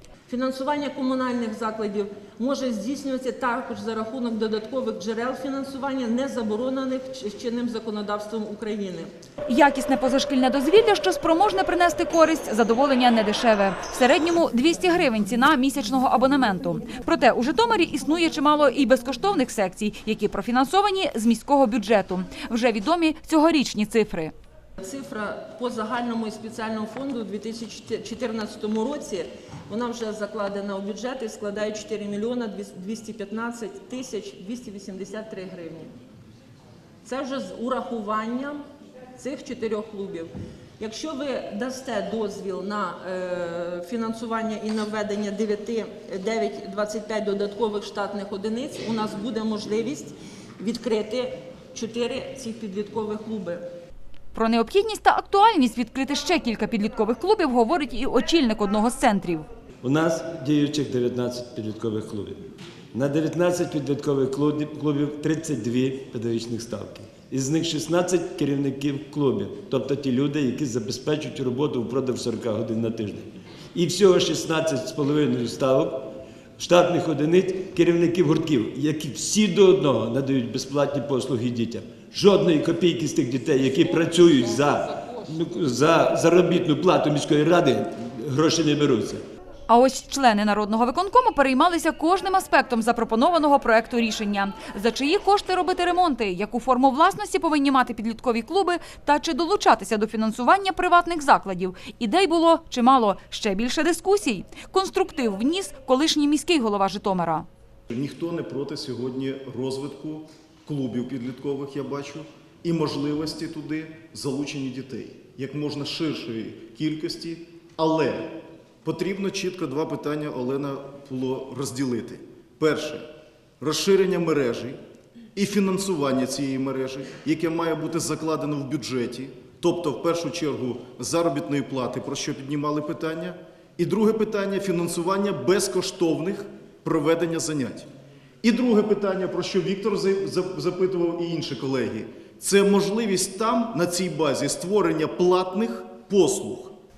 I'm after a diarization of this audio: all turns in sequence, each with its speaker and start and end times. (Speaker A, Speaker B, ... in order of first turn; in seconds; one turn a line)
Speaker A: 0.3-9.1
Speaker B: 9.4-24.3
Speaker A: 24.8-35.9
Speaker A: 37.0-38.6
Speaker A: 39.1-53.6
Speaker B: 54.3-59.4
Speaker C: 59.8-89.2
Speaker B: 89.7-107.5
Speaker D: 107.9-123.1
Speaker D: 123.6-124.8
Speaker D: 125.3-137.9
Speaker D: 138.4-146.7